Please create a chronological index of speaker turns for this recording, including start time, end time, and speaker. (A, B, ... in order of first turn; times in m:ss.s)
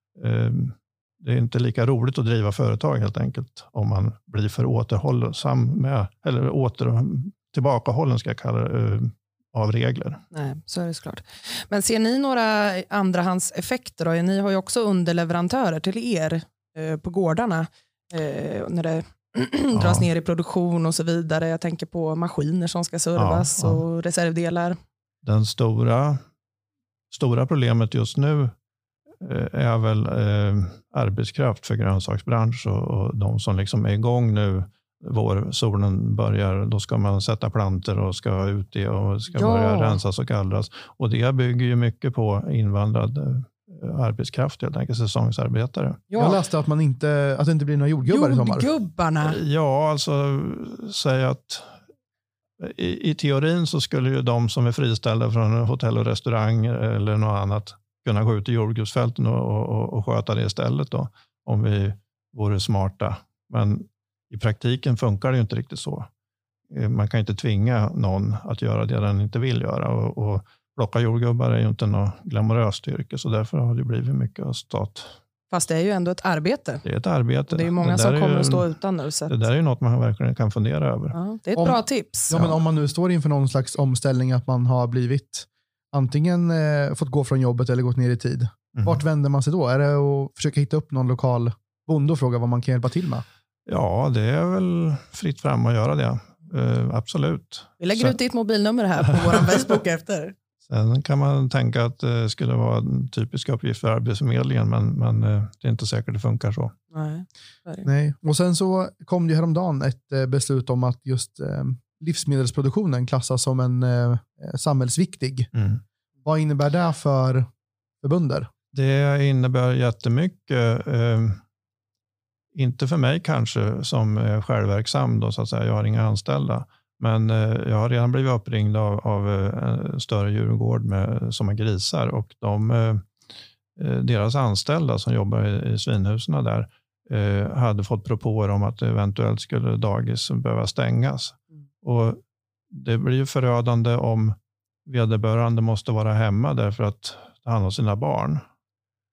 0:00.2-0:10.2 A
0:10.3-0:24.8 B
0:19.7-0:20.1 A
0:23.2-0:23.8 A
0:25.2-0:26.2 A
0:27.1-0:28.5 A
0:29.2-0:46.1 A
0:39.3-0:40.0 B
0:46.1-0:46.4 B
0:46.2-0:48.7 C
0:48.1-0:49.4 B
0:49.2-0:51.8 A
0:52.6-1:06.1 A
1:06.7-1:15.2 A
1:15.5-1:16.8 B
1:16.8-1:18.7 A
1:17.5-1:19.5 B
1:19.3-1:21.2 A
1:21.1-1:22.5 B
1:22.3-1:33.2 C
1:28.7-1:29.0 A
1:33.7-1:38.2 A
1:37.8-1:40.4 B
1:40.6-1:46.8 A
1:46.9-1:47.9 B
1:47.8-1:55.5 C
1:55.5-1:55.8 A
1:56.2-1:57.5 C
1:58.0-1:58.5 C
1:58.7-2:01.4 A
2:02.6-2:13.1 A
2:13.8-2:22.2 A
2:22.7-2:28.4 A